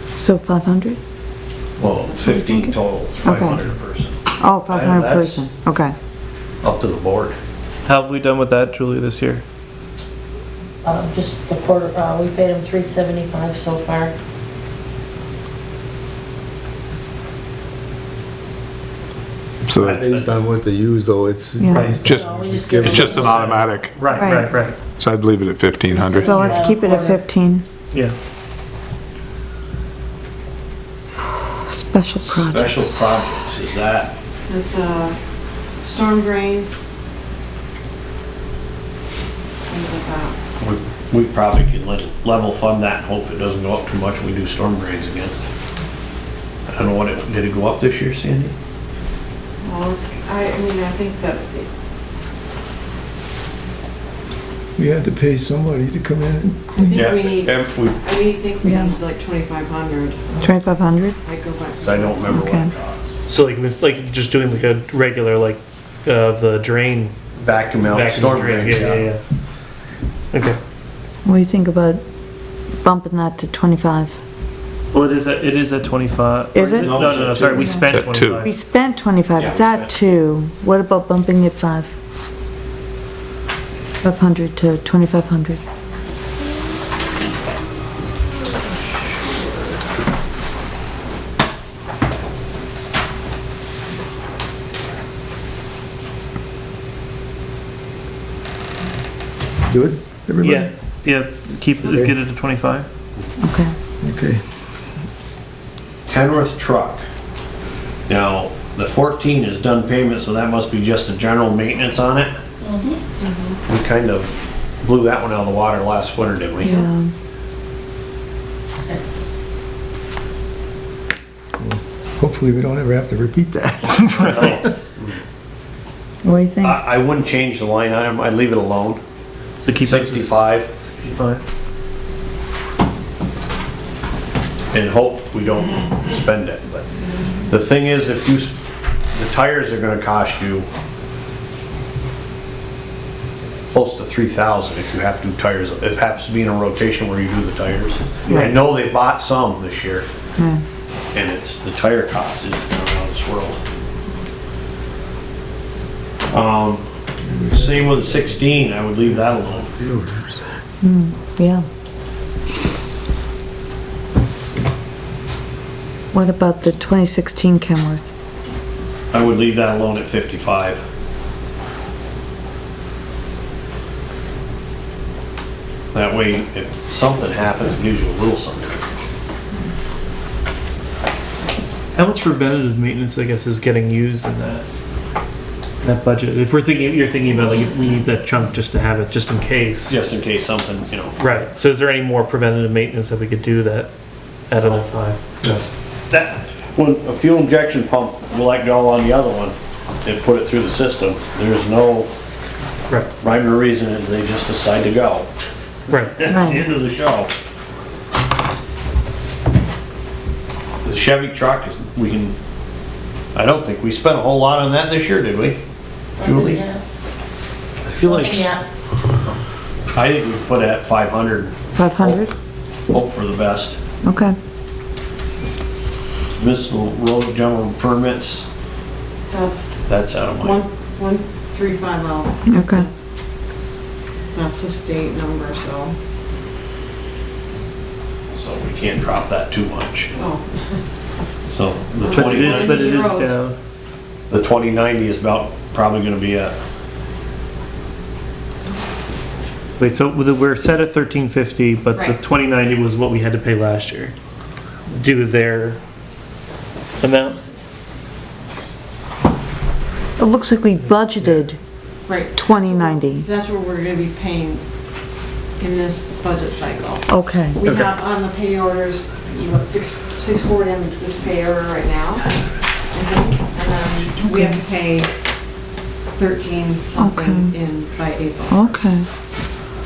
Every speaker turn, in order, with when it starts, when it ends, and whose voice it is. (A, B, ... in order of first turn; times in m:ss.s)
0:00.2-0:01.0 A
0:01.8-0:05.4 B
0:01.8-0:02.4 C
0:02.3-0:03.6 A
0:04.4-0:05.9 A
0:06.6-0:07.4 B
0:07.8-0:09.4 D
0:10.8-0:14.1 E
0:19.6-0:23.4 F
0:19.6-0:20.0 G
0:19.8-0:20.4 B
0:21.6-0:21.9 A
0:21.6-0:23.5 E
0:22.0-0:22.3 G
0:22.9-0:24.2 G
0:23.3-0:24.8 D
0:24.1-0:24.5 A
0:25.0-0:26.6 G
0:25.9-0:27.2 E
0:26.1-0:27.6 A
0:31.7-0:33.3 A
0:32.2-0:34.1 B
0:34.5-0:35.2 C
0:35.8-0:36.8 C
0:39.7-0:40.4 C
0:40.6-0:45.4 B
0:46.7-0:48.5 B
0:49.6-0:51.7 C
0:54.8-0:57.1 F
0:56.8-1:00.2 C
0:56.9-0:58.0 B
0:58.6-0:58.9 A
1:00.4-1:01.2 A
1:01.2-1:02.3 C
1:01.8-1:03.1 B
1:02.2-1:02.7 A
1:03.3-1:07.1 D
1:07.4-1:09.0 B
1:07.8-1:09.2 D
1:10.3-1:10.6 D
1:11.2-1:12.0 A
1:12.8-1:14.2 A
1:14.9-1:18.5 D
1:16.5-1:17.0 A
1:16.8-1:17.9 B
1:17.9-1:18.4 G
1:18.3-1:21.9 A
1:19.4-1:20.0 B
1:24.0-1:25.6 A
1:39.6-1:40.7 F
1:40.4-1:42.9 D
1:43.4-1:43.7 A
1:44.0-1:44.4 F
1:46.1-1:47.0 B
1:48.1-1:52.3 B
1:52.6-1:53.0 E
1:53.7-1:54.3 B
1:54.8-1:56.8 B
1:56.6-1:57.1 A
2:01.6-2:04.6 F
2:04.1-2:04.6 D
2:06.2-2:06.8 A
2:06.6-2:09.0 B
2:09.6-2:11.4 D
2:09.8-2:10.7 B
2:14.7-2:17.0 B
2:17.5-2:18.5 B
2:19.1-2:20.7 B
2:23.7-2:30.0 B
2:28.2-2:28.5 D
2:28.3-2:28.6 A
2:31.1-2:33.6 B
2:36.3-2:36.8 B
2:37.2-2:38.6 F
2:37.5-2:39.7 B
2:39.5-2:40.4 F
2:40.8-2:41.6 A
2:46.1-2:48.1 A
2:49.1-2:50.8 B
2:55.9-2:58.8 B
3:01.9-3:04.6 D
3:05.8-3:10.0 D
3:09.9-3:11.1 B
3:11.2-3:13.9 D
3:14.5-3:15.6 D
3:16.1-3:22.1 B
3:23.2-3:25.3 B
3:25.9-3:26.2 D
3:26.2-3:27.3 B
3:26.3-3:26.6 A
3:30.8-3:32.4 B
3:33.3-3:35.6 B
3:36.2-3:36.6 B
3:36.2-3:36.8 E
3:37.8-3:38.6 B
3:38.0-3:38.6 E
3:39.9-3:42.2 B
3:41.8-3:42.3 A
3:42.9-3:43.8 B
3:44.0-3:44.4 A
3:46.4-3:48.5 B
3:49.3-3:49.8 C
3:49.8-3:50.6 B
3:50.4-3:52.9 C
3:52.4-3:52.9 A
3:54.3-3:55.9 C
3:58.3-4:00.1 B
4:00.1-4:00.4 C
4:01.5-4:03.0 B
4:02.0-4:03.4 C
4:02.0-4:03.6 D
4:04.3-4:06.6 B
4:09.8-4:14.1 D
4:14.9-4:15.8 D
4:17.0-4:17.5 D
4:20.2-4:21.6 A
4:22.1-4:24.6 C
4:22.4-4:23.3 A
4:25.6-4:32.3 C
4:27.1-4:27.7 A
4:32.9-4:35.1 C
4:34.2-4:34.6 A
4:36.1-4:38.9 C
4:37.0-4:37.5 A
4:38.5-4:39.1 A